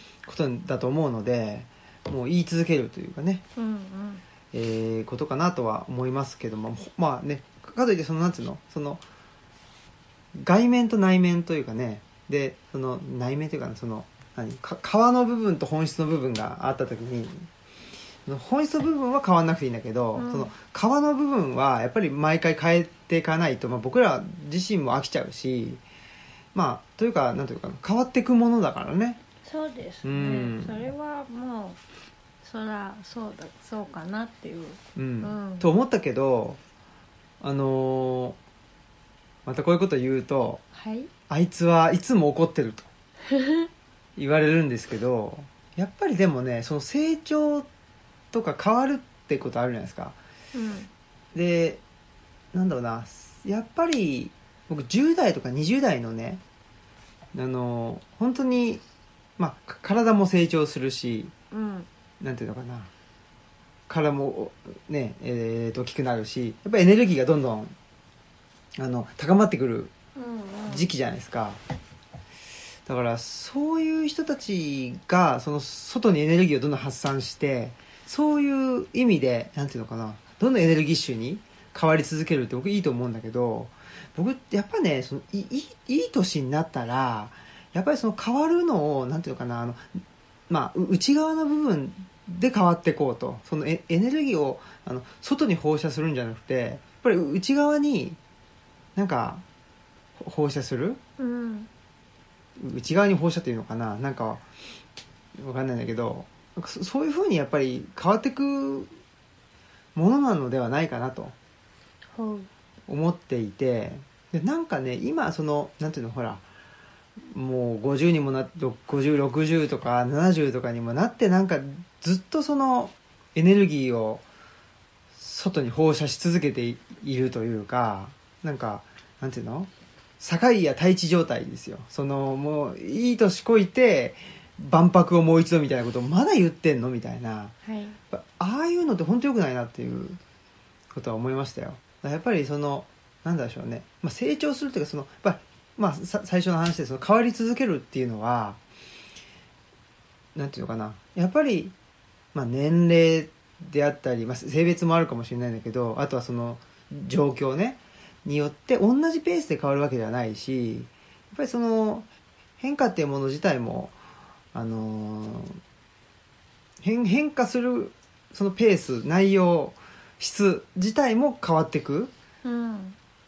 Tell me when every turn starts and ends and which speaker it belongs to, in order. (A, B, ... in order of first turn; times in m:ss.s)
0:00.2-0:03.4 A
0:03.6-0:04.2 B
0:04.5-0:09.0 A
0:10.4-0:17.5 A
0:18.2-0:25.8 A
0:20.1-0:20.5 B
0:26.5-0:29.2 A
0:29.4-0:31.8 B
0:30.0-0:30.9 A
0:32.4-0:35.7 B
0:35.0-0:36.6 A
0:37.4-0:38.4 A
0:39.4-0:40.6 A
0:40.7-0:41.1 B
0:41.3-0:42.9 A
0:43.3-0:43.7 B
0:44.2-0:47.7 A
0:48.3-0:50.2 A
0:50.5-0:50.9 B
0:51.3-0:51.8 A
0:52.5-0:56.4 A
0:57.3-0:58.8 A
0:59.4-1:01.3 A
1:01.5-1:01.9 B
1:02.2-1:02.9 A
1:03.9-1:07.7 A
1:08.8-1:09.9 A
1:10.2-1:10.9 B
1:10.7-1:11.6 A
1:12.8-1:29.9 A
1:30.5-1:38.2 A
1:39.0-1:39.4 A
1:40.2-1:41.0 A
1:41.2-1:41.7 B
1:42.6-1:44.4 A
1:45.4-1:48.9 A
1:49.9-1:51.3 A
1:52.1-1:52.5 B
1:52.9-1:56.4 A
1:57.2-2:04.2 A
2:05.1-2:09.7 A
2:10.2-2:17.5 A
2:17.6-2:18.0 B
2:18.1-2:20.2 A
2:20.9-2:28.6 A
2:30.3-2:31.7 A
2:32.3-2:42.1 A
2:42.6-2:43.9 A
2:44.5-2:45.6 A
2:46.8-2:52.1 A
2:52.4-2:53.0 B